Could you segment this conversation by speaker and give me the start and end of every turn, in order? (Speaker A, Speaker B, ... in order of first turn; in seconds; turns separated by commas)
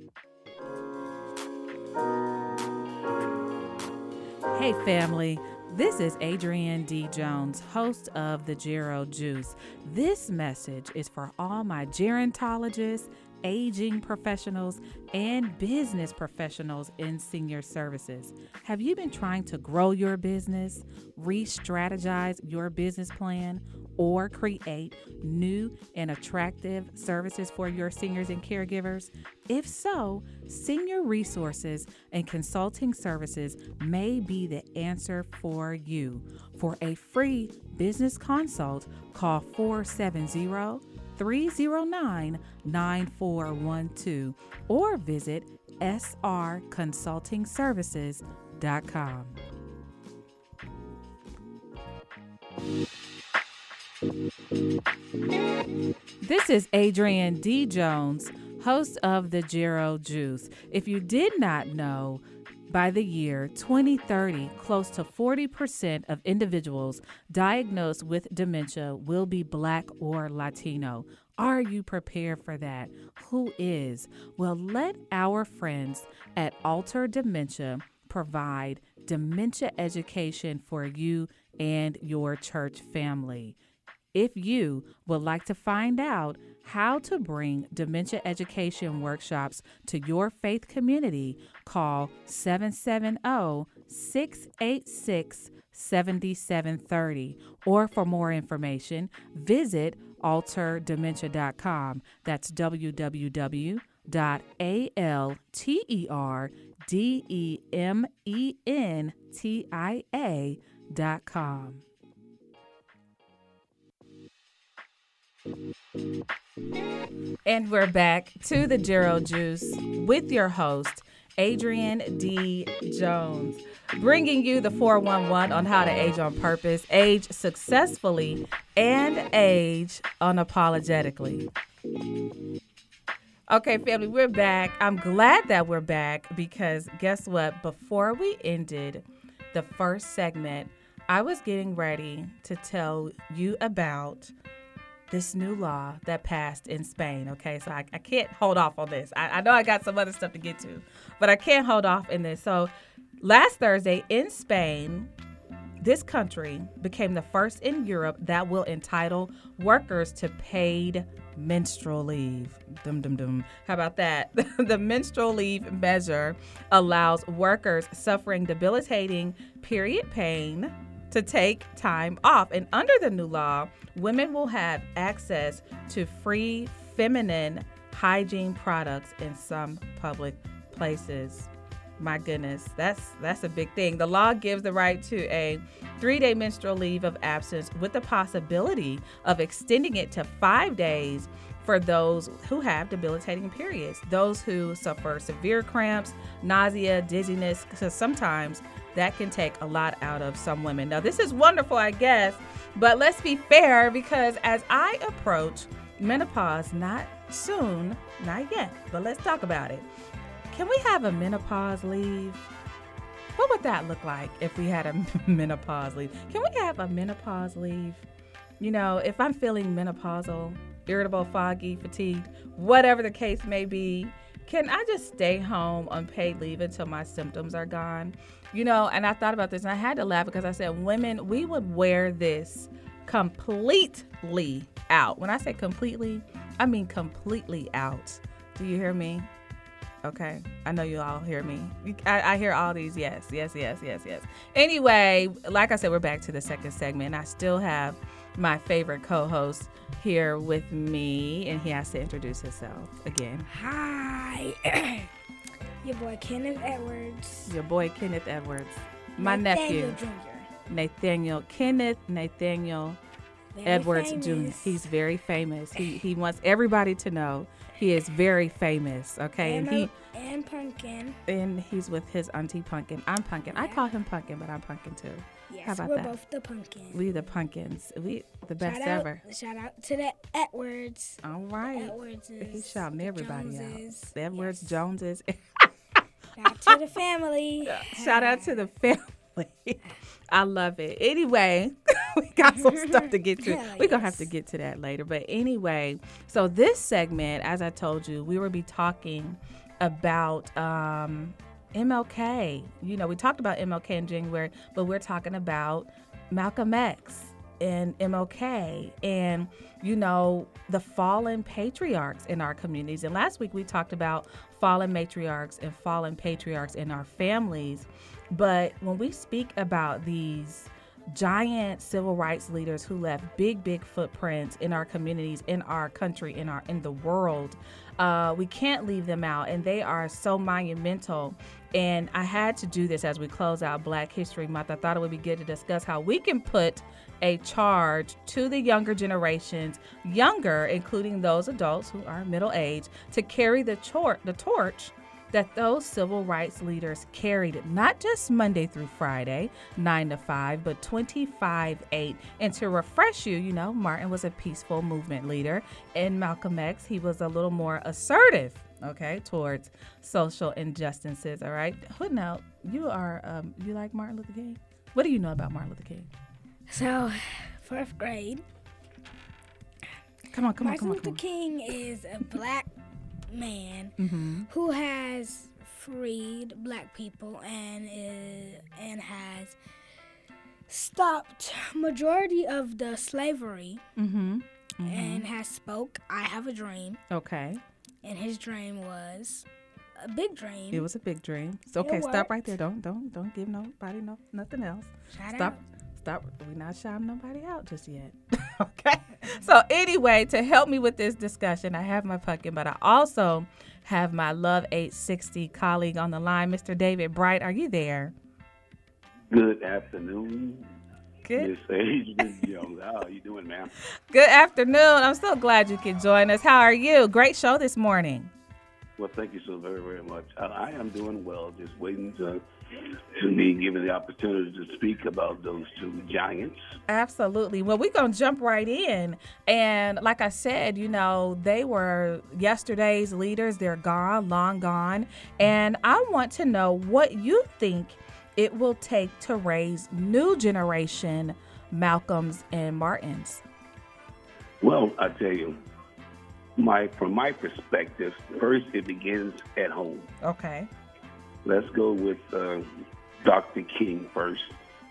Speaker A: 4.5-49.3, Speaker A: 56.2-83.6, Speaker A: 84.1-111.8, Speaker A: 117.4-131.5, Speaker A: 133.5-144.3, Speaker A: 145.1-155.1, Speaker A: 155.8-209.9, Speaker A: 210.5-212.4, Speaker A: 213.3-218.1, Speaker A: 218.6-239.3, Speaker A: 240.0-253.5, Speaker B: 253.5-255.1, Speaker B: 255.8-257.5, Speaker A: 257.5-260.0, Speaker B: 259.2-260.5, Speaker A: 260.7-263.0, Speaker B: 263.5-264.8, Speaker A: 263.6-269.9, Speaker B: 269.4-271.2, Speaker A: 271.3-276.1, Speaker B: 273.5-273.8, Speaker B: 275.5-277.1, Speaker A: 276.9-279.2, Speaker B: 278.6-281.2, Speaker A: 281.2-285.7, Speaker B: 281.7-284.8, Speaker B: 286.4-288.5, Speaker A: 287.6-366.1, Speaker B: 292.4-294.3, Speaker B: 366.7-368.4, Speaker A: 370.3-371.2, Speaker B: 370.6-372.7, Speaker B: 373.3-373.9, Speaker A: 374.0-374.5, Speaker B: 374.5-379.6, Speaker B: 380.7-383.8, Speaker A: 384.0-385.2, Speaker B: 384.8-387.0, Speaker A: 387.1-387.6, Speaker B: 388.0-389.4, Speaker B: 390.0-390.9, Speaker A: 390.7-408.1, Speaker B: 391.8-392.3, Speaker B: 395.1-395.6, Speaker C: 409.3-410.7, Speaker A: 411.2-411.5, Speaker C: 411.4-413.7, Speaker A: 414.1-418.3, Speaker C: 419.0-426.6, Speaker A: 426.9-443.4, Speaker C: 444.6-445.6, Speaker C: 446.6-450.1, Speaker A: 450.2-450.7, Speaker C: 451.4-454.5